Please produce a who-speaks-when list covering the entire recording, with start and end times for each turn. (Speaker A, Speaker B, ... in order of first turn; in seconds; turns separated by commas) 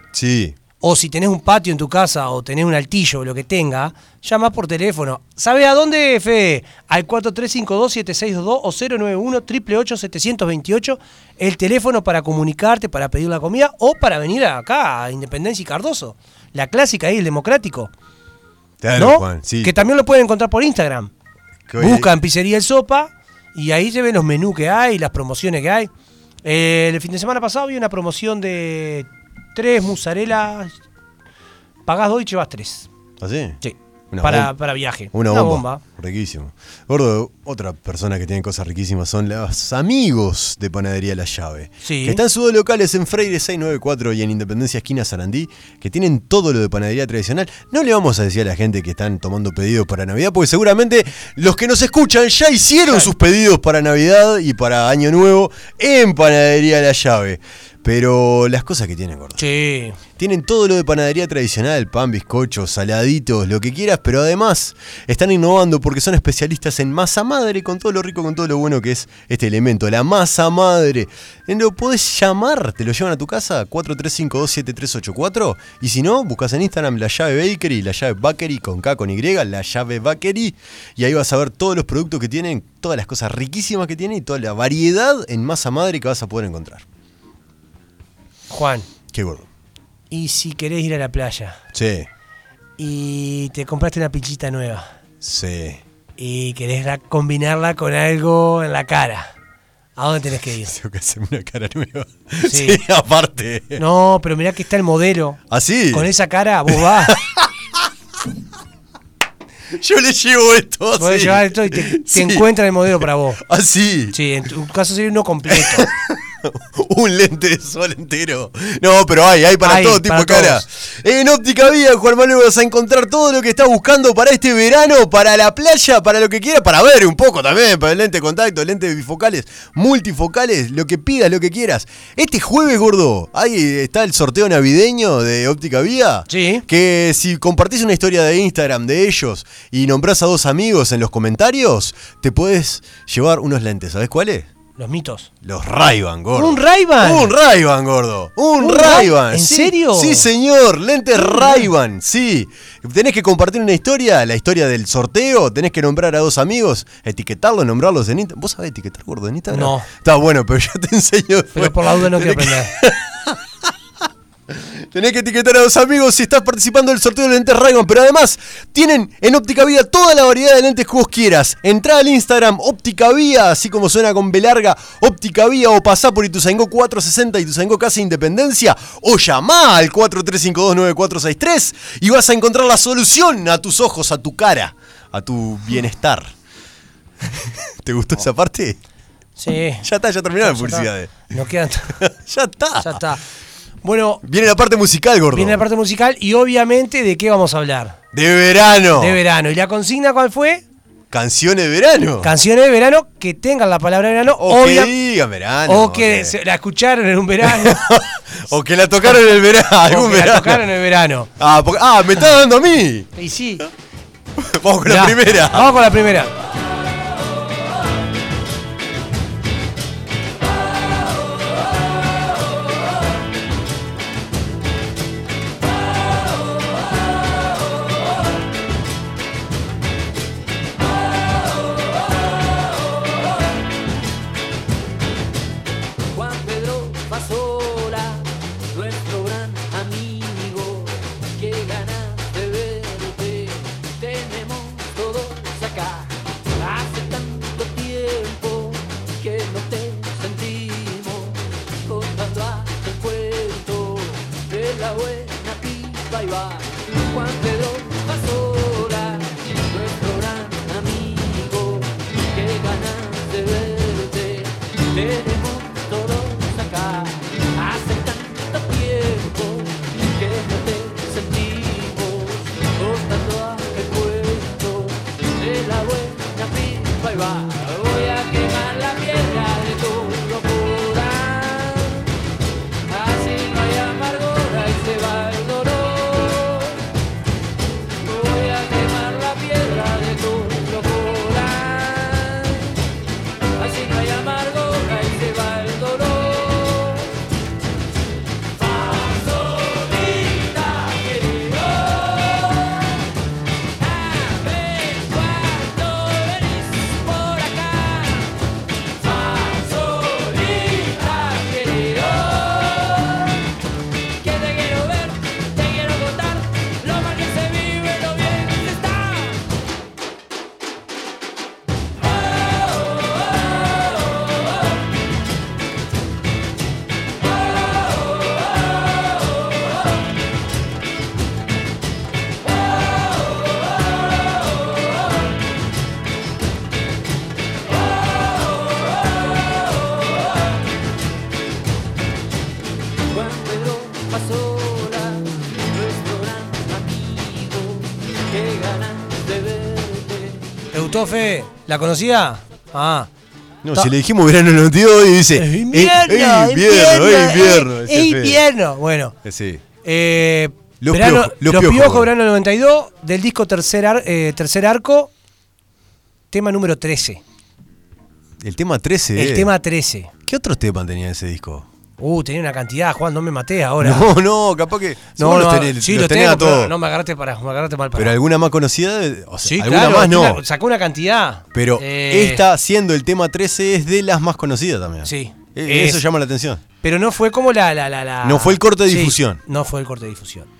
Speaker A: 0.1-0.6, Speaker B: 0.8-17.9, Speaker A: 18.8-19.8, Speaker B: 18.9-21.1, Speaker A: 21.7-22.1, Speaker B: 21.8-25.9, Speaker B: 26.4-30.8, Speaker B: 31.9-32.9, Speaker A: 33.2-33.6, Speaker B: 33.6-35.8, Speaker A: 34.1-59.4, Speaker B: 41.8-42.2, Speaker B: 59.4-60.0, Speaker A: 60.2-86.8, Speaker B: 88.5-88.9, Speaker A: 89.1-89.5, Speaker B: 90.1-91.6, Speaker A: 91.7-92.1, Speaker B: 92.8-94.9, Speaker A: 95.2-95.8, Speaker B: 96.2-99.3, Speaker B: 100.0-100.7, Speaker A: 100.6-103.8, Speaker B: 102.5-102.8, Speaker B: 103.8-105.4, Speaker A: 105.5-106.1, Speaker B: 105.9-107.2, Speaker A: 106.7-107.8, Speaker A: 109.7-112.5, Speaker B: 111.0-113.4, Speaker A: 113.4-114.2, Speaker B: 114.1-115.9, Speaker A: 115.5-144.5, Speaker B: 119.6-120.6, Speaker B: 136.3-136.6, Speaker B: 144.8-145.3, Speaker A: 145.4-163.7, Speaker B: 146.3-147.3, Speaker B: 148.6-150.3, Speaker B: 151.2-151.6, Speaker B: 159.5-159.9, Speaker B: 161.5-162.7, Speaker A: 164.5-186.3, Speaker A: 187.3-188.8, Speaker B: 189.4-189.9, Speaker A: 189.8-191.3, Speaker B: 190.4-192.0, Speaker A: 191.9-193.1, Speaker B: 192.8-193.2, Speaker B: 193.8-194.2, Speaker A: 194.2-195.6, Speaker B: 195.3-198.0, Speaker A: 198.1-199.2, Speaker B: 198.9-200.6, Speaker A: 201.1-202.3, Speaker B: 202.2-204.9, Speaker A: 204.4-206.4, Speaker B: 205.7-207.8, Speaker A: 207.4-210.7, Speaker B: 209.8-211.3, Speaker A: 211.4-213.1, Speaker B: 213.2-213.7, Speaker A: 214.4-215.7, Speaker B: 214.8-216.3, Speaker C: 236.1-282.1, Speaker C: 282.9-286.8, Speaker C: 288.0-292.8, Speaker C: 293.6-297.1, Speaker C: 298.6-302.9, Speaker C: 303.8-308.3, Speaker C: 308.9-313.3, Speaker C: 314.2-319.4, Speaker C: 343.1-350.6, Speaker B: 350.7-353.1, Speaker A: 353.6-358.4, Speaker B: 355.4-359.1, Speaker A: 359.2-359.6, Speaker B: 359.8-365.1, Speaker A: 360.8-362.1, Speaker B: 366.3-367.2, Speaker A: 368.4-369.5, Speaker B: 369.1-370.1, Speaker A: 370.2-371.7, Speaker B: 372.0-374.1, Speaker A: 373.8-376.7, Speaker B: 375.2-378.1, Speaker A: 377.9-380.4, Speaker B: 379.4-382.4, Speaker A: 381.5-386.6, Speaker B: 385.0-386.0, Speaker B: 386.8-390.5, Speaker A: 388.2-389.4